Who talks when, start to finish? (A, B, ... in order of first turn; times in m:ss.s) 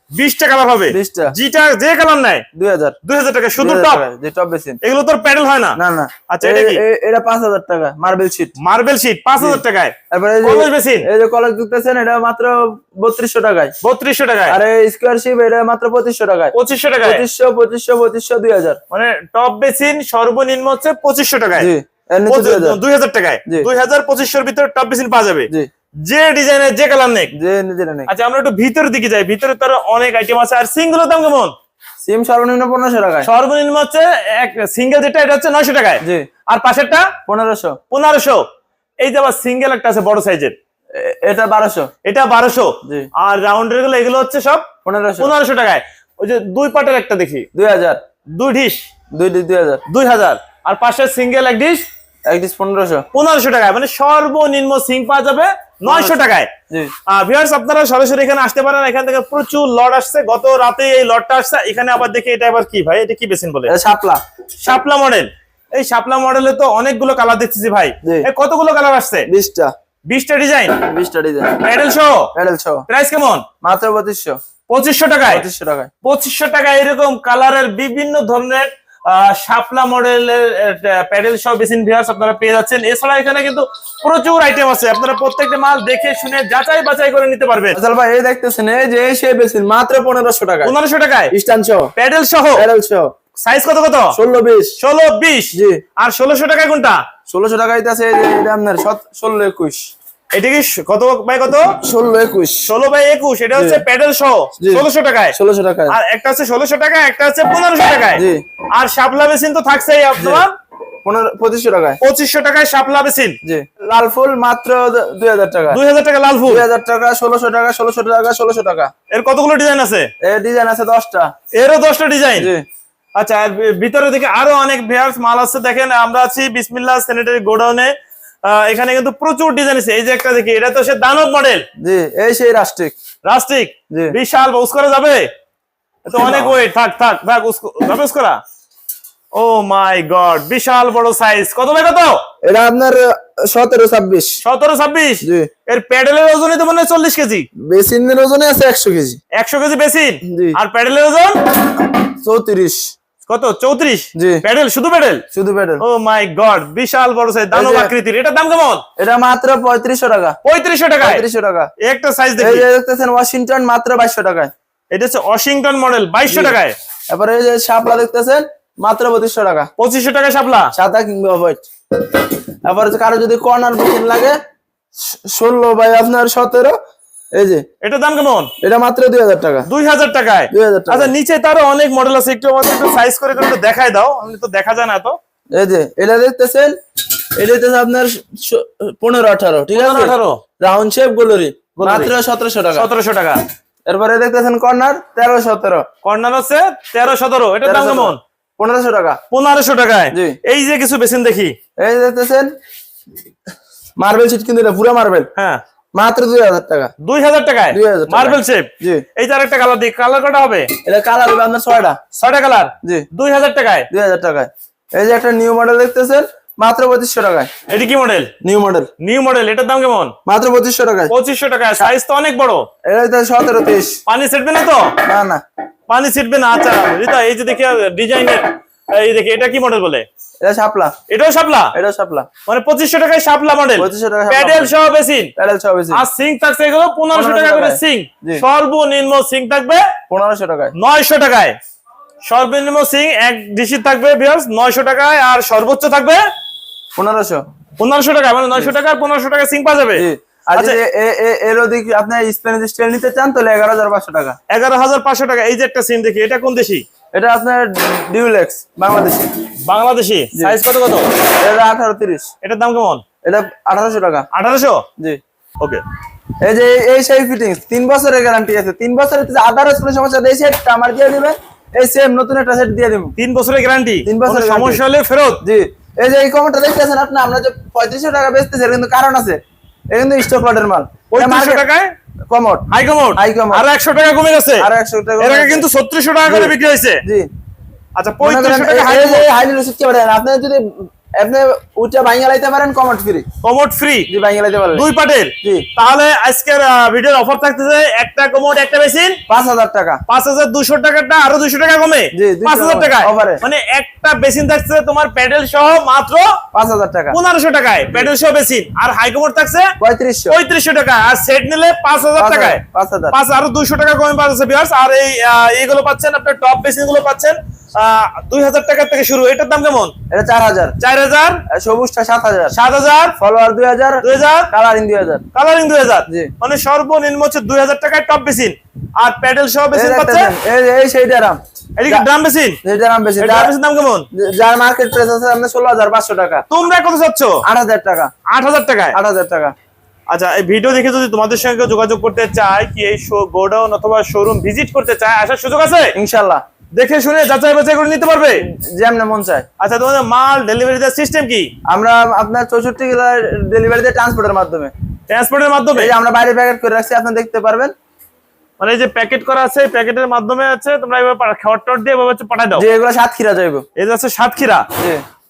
0:00.1-0:02.4 A
0:00.9-0:01.3 B
0:02.5-0:03.0 B
0:03.0-0:04.0 A
0:03.6-0:04.8 B
0:04.8-0:05.8 A
0:05.7-0:08.5 B
0:06.3-0:06.8 A
0:08.6-0:11.1 A
0:09.4-0:13.7 B
0:13.8-0:14.6 A
0:14.5-0:18.8 B
0:16.5-0:17.2 A
0:18.9-0:21.7 A
0:21.6-0:22.8 B
0:22.3-0:25.5 A
0:26.0-0:27.3 A
0:27.3-0:28.1 B
0:28.1-0:31.5 A
0:32.0-0:33.3 B
0:33.2-0:37.1 A
0:37.2-0:37.8 B
0:37.9-0:38.4 A
0:39.0-0:40.5 A
0:40.9-0:41.9 B
0:42.0-0:44.7 A
0:44.8-0:45.3 B
0:45.2-0:47.5 A
0:47.5-0:48.0 B
0:48.3-0:48.8 A
0:49.1-0:49.8 B
0:49.9-0:51.8 A
0:52.3-0:53.0 B
0:53.1-0:56.5 A
0:55.8-0:56.2 B
0:57.1-1:03.7 A
1:03.7-1:04.2 B
1:04.6-1:09.3 A
1:09.3-1:09.7 B
1:10.1-1:10.8 A
1:10.8-1:11.7 B
1:11.6-1:12.3 A
1:12.3-1:12.8 B
1:12.9-1:13.4 A
1:13.6-1:14.4 B
1:14.7-1:15.4 A
1:15.3-1:15.9 B
1:16.0-1:27.8 A
1:27.7-1:30.7 B
1:30.6-1:31.3 A
1:31.3-1:31.9 B
1:32.0-1:32.6 A
1:32.5-1:33.1 B
1:33.4-1:34.2 A
1:34.1-1:34.8 B
1:34.8-1:37.0 A
1:35.5-1:35.8 B
1:37.3-1:39.9 B
1:40.3-1:41.7 A
1:41.8-1:42.7 B
1:42.6-1:45.4 A
1:43.6-1:43.8 B
1:44.6-1:46.0 B
1:45.9-1:48.2 A
1:48.2-1:48.4 B
1:48.8-1:50.5 A
1:50.2-1:50.4 B
1:51.0-1:52.0 B
1:52.0-1:53.4 A
1:53.4-1:55.8 B
1:55.7-1:56.7 A
1:56.5-1:58.9 B
1:59.1-2:00.1 A
2:00.2-2:01.3 B
2:01.5-2:02.5 A
2:02.4-2:02.6 B
2:03.2-2:07.9 A
2:08.4-2:11.6 A
2:11.8-2:12.9 B
2:13.2-2:15.3 A
2:16.0-2:18.4 A
2:16.2-2:16.6 B
2:19.3-2:22.2 A
2:22.4-2:24.4 B
2:24.4-2:27.5 A
2:25.2-2:25.5 B
2:27.6-2:29.2 B
2:29.3-2:31.4 A
2:30.2-2:30.6 B
2:32.0-2:32.9 B
2:33.3-2:35.2 A
2:34.2-2:34.4 B
2:35.3-2:35.8 B
2:35.8-2:38.8 A
2:37.5-2:37.9 B
2:39.0-2:40.4 B
2:40.4-2:41.2 A
2:41.0-2:41.7 B
2:41.8-2:42.6 A
2:42.4-2:44.5 B
2:44.9-2:46.8 A
2:46.3-2:46.6 B
2:47.1-2:49.7 B
2:49.8-2:50.7 A
2:50.7-2:51.7 B
2:52.6-2:54.4 B
2:55.0-2:56.8 B
2:57.3-2:57.6 B
2:57.8-2:58.5 A
2:58.6-2:59.7 B
2:59.7-3:05.2 A
3:00.5-3:01.1 B
3:05.5-3:06.7 B
3:07.4-3:12.9 B
3:09.7-3:10.4 A
3:11.8-3:12.1 A
3:12.7-3:13.4 A
3:13.9-3:15.8 B
3:16.0-3:18.2 A
3:17.6-3:19.2 B
3:19.3-3:21.5 A
3:20.1-3:20.4 B
3:21.8-3:22.5 B
3:24.0-3:25.3 B
3:25.4-3:25.6 A
3:25.9-3:26.9 B
3:27.0-3:30.7 A
3:27.7-3:29.0 B
3:30.8-3:32.0 B
3:32.1-3:33.9 A
3:33.9-3:37.5 B
3:37.7-3:38.3 A
3:38.4-3:38.9 B
3:39.0-3:40.1 A
3:40.2-3:41.1 B
3:41.1-3:42.7 A
3:42.9-3:44.0 B
3:44.1-3:45.0 A
3:45.0-3:45.4 B
3:45.9-3:50.0 A
3:50.4-3:50.9 B
3:51.1-3:51.7 A
3:51.7-3:52.3 B
3:52.5-3:55.3 A
3:53.8-3:54.7 B
3:55.4-3:56.0 B
3:55.9-3:59.9 A
3:57.1-3:58.4 B
4:00.1-4:00.7 B
4:00.7-4:01.6 A
4:02.2-4:06.2 A
4:07.0-4:07.4 B
4:07.8-4:10.8 A
4:10.0-4:14.4 B
4:14.5-4:16.8 A
4:17.1-4:19.3 B
4:19.7-4:21.1 A
4:21.4-4:22.3 B
4:22.4-4:23.0 A
4:23.2-4:24.3 B
4:24.3-4:24.8 A
4:26.4-4:33.1 B
4:33.2-4:35.4 A
4:34.0-4:34.8 B
4:35.4-4:39.4 B
4:39.9-4:41.6 B
4:41.1-4:41.9 A
4:42.3-4:43.6 B
4:42.7-4:44.7 A
4:44.6-4:45.7 B
4:45.2-4:47.0 A
4:46.2-4:47.3 B
4:48.0-4:49.3 A
4:48.2-4:53.2 B
4:53.4-4:54.1 A
4:54.1-4:54.8 B
4:54.7-4:59.2 A
4:55.4-4:55.7 B
4:59.3-5:00.0 B
5:00.1-5:06.4 A
5:02.1-5:03.4 B
5:06.5-5:07.2 B
5:07.1-5:09.7 A
5:09.8-5:10.4 B
5:10.3-5:19.9 A
5:12.2-5:13.2 B
5:20.1-5:20.8 B
5:20.8-5:21.4 A
5:21.5-5:22.5 B
5:22.5-5:23.2 A
5:23.2-5:25.2 B
5:24.0-5:24.5 A
5:25.3-5:30.3 A
5:29.7-5:32.0 B
5:31.8-5:32.6 A
5:32.6-5:33.5 B
5:33.2-5:34.1 A
5:34.1-5:36.4 B
5:36.5-5:37.4 A
5:37.4-5:38.1 B
5:38.3-5:39.0 A
5:38.9-5:39.5 B
5:40.1-5:46.0 A
5:45.9-5:46.4 B
5:46.7-5:48.4 A
5:48.4-5:49.4 B
5:49.6-5:51.5 A
5:51.7-5:54.7 B
5:55.1-5:55.9 A
5:55.7-5:57.7 B
5:58.6-6:02.6 A
6:02.5-6:03.6 B
6:03.8-6:04.7 A